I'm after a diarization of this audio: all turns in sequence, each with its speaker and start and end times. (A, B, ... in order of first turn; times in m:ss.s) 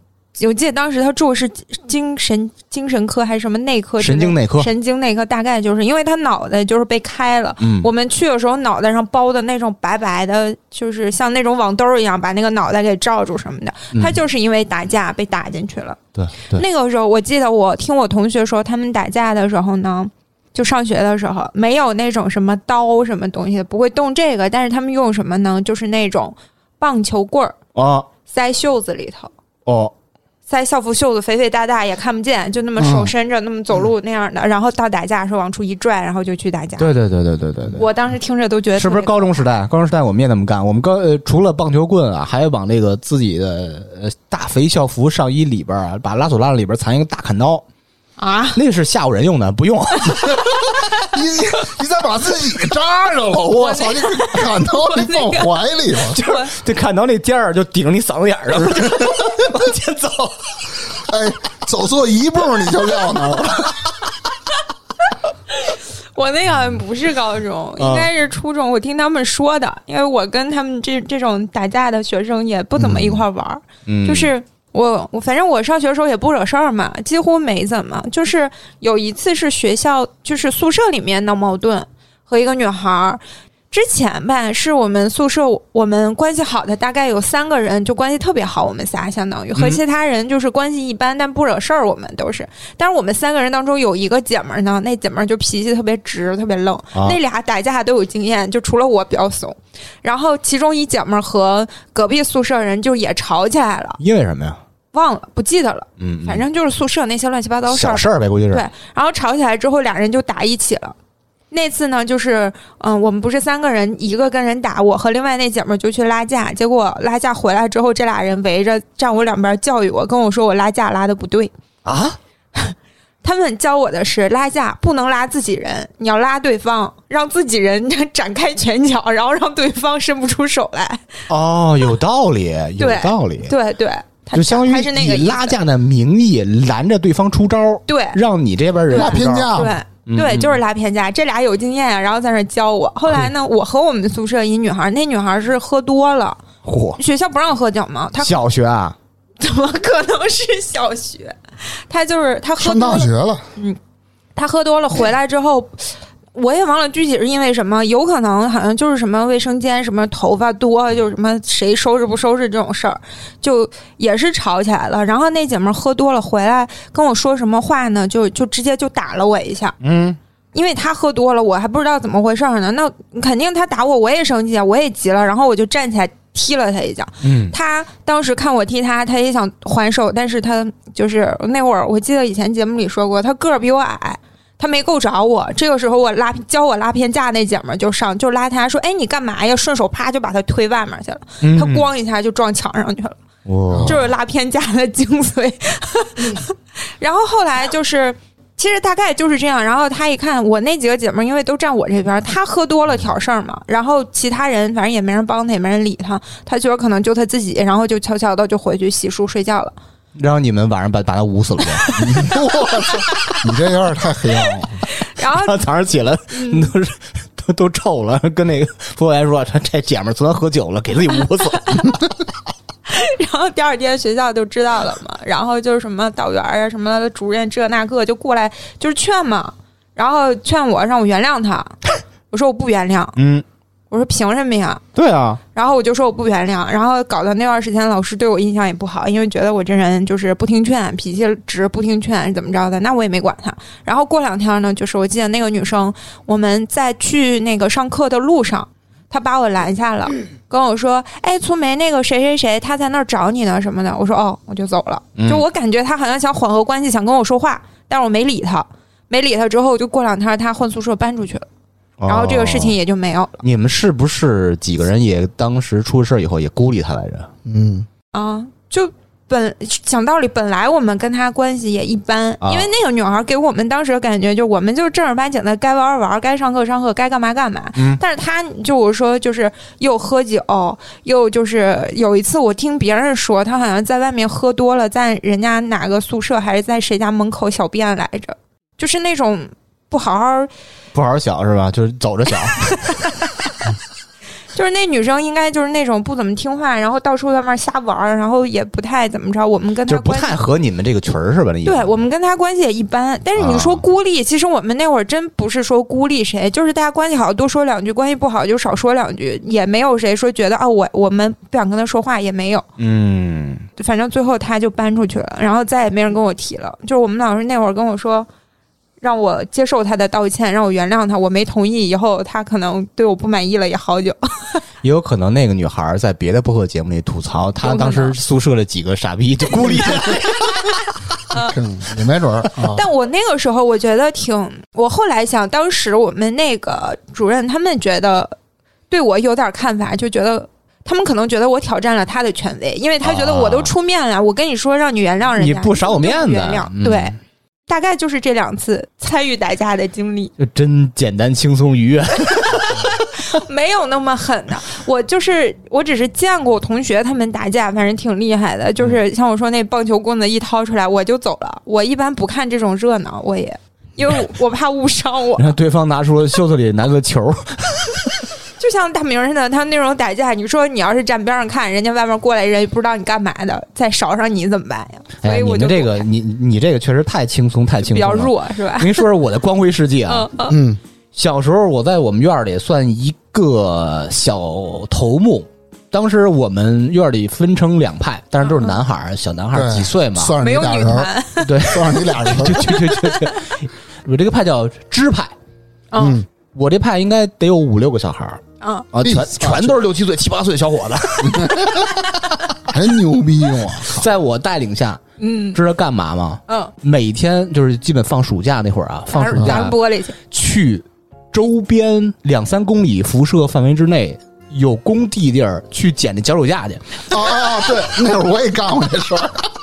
0:00.4-0:16.0 A
0:04.0-0:04.7 B
0:07.6-0:07.9 B
0:16.2-0:16.6 B
0:16.5-0:27.6 A
0:27.7-0:28.1 B
0:28.3-0:29.3 A
0:29.6-0:29.9 B
0:30.5-0:36.9 A
0:32.8-0:33.1 C
0:36.8-0:37.8 B
0:37.7-0:39.4 A
0:38.8-0:47.6 B
0:48.2-0:48.6 A
0:48.5-0:50.3 B
0:51.0-0:56.2 C
0:53.6-0:55.5 A
0:56.1-0:56.5 A
0:56.1-1:00.6 B
0:58.6-0:59.2 C
1:00.9-1:03.8 C
1:05.5-1:44.0 A
1:07.8-1:08.1 B
1:13.9-1:14.3 B
1:29.6-1:29.8 B
1:44.0-1:44.6 B
1:44.9-1:51.0 A
1:46.0-1:46.4 B
1:47.7-1:48.6 B
1:51.5-2:01.5 A
2:01.8-2:02.2 B
2:02.5-2:11.2 A
2:11.3-2:13.5 B
2:12.8-2:15.6 A
2:14.3-2:20.6 B
2:17.9-2:18.2 A
2:18.9-2:19.7 C
2:18.9-2:26.4 A
2:26.6-2:27.0 B
2:27.0-2:28.4 A
2:28.2-2:29.0 B
2:29.4-2:33.8 A
2:32.6-2:33.4 C
2:34.4-2:49.8 A
2:49.8-2:50.2 B
2:50.5-3:13.2 A
2:57.2-2:57.5 B
3:11.4-3:11.9 B
3:13.4-3:14.0 B
3:13.7-3:14.0 C
3:13.8-3:29.7 A
3:30.2-3:33.4 B
3:32.0-3:34.8 C
3:34.9-3:35.6 A
3:35.2-3:41.8 B
3:36.3-3:36.7 A
3:42.8-3:51.8 A
3:52.3-3:53.2 A
3:53.2-3:53.4 B
3:53.9-3:54.8 A
3:54.9-3:55.4 B
3:55.5-4:21.4 A
4:15.2-4:15.4 B
4:22.0-4:22.8 B
4:22.1-4:23.4 A
4:23.4-4:27.3 B
4:27.4-4:27.9 C
4:28.1-4:50.5 A
4:32.4-4:32.7 B
4:50.9-4:53.0 B
4:52.7-4:53.3 A
4:54.5-5:00.4 A
4:59.9-5:02.0 B
5:01.6-5:12.6 A
5:03.4-5:03.8 B
5:12.8-5:13.7 B
5:13.8-5:18.3 A
5:19.0-5:24.6 A
5:24.8-5:30.5 B
5:27.6-5:28.2 A
5:29.6-5:30.6 A
5:31.3-5:31.6 A
5:31.3-5:32.8 C
5:32.6-5:38.4 A
5:38.9-5:47.1 A
5:43.0-5:43.7 B
5:45.4-5:47.1 B
5:47.7-5:50.3 A
5:50.4-5:52.9 B
5:52.3-6:05.5 A
6:05.4-6:08.2 B
6:08.6-6:16.0 A
6:15.2-6:20.3 B
6:17.8-6:19.0 A
6:20.1-6:20.6 A
6:20.5-6:20.8 C
6:21.1-6:30.4 B
6:28.4-6:28.8 A
6:29.5-6:32.7 C
6:30.4-6:31.6 A
6:31.4-6:35.3 B
6:32.7-6:33.4 A
6:35.9-6:36.2 A
6:36.0-6:36.3 C
6:36.5-6:38.4 B
6:38.6-6:38.9 A
6:38.9-6:42.0 B
6:39.0-6:39.8 C
6:41.2-6:41.9 C
6:42.6-6:44.1 C
6:43.8-6:45.0 B
6:45.2-6:45.6 A
6:45.5-6:49.7 B
6:46.5-6:46.7 A
6:49.1-6:50.2 A
6:50.3-6:56.9 B
6:57.1-6:59.5 C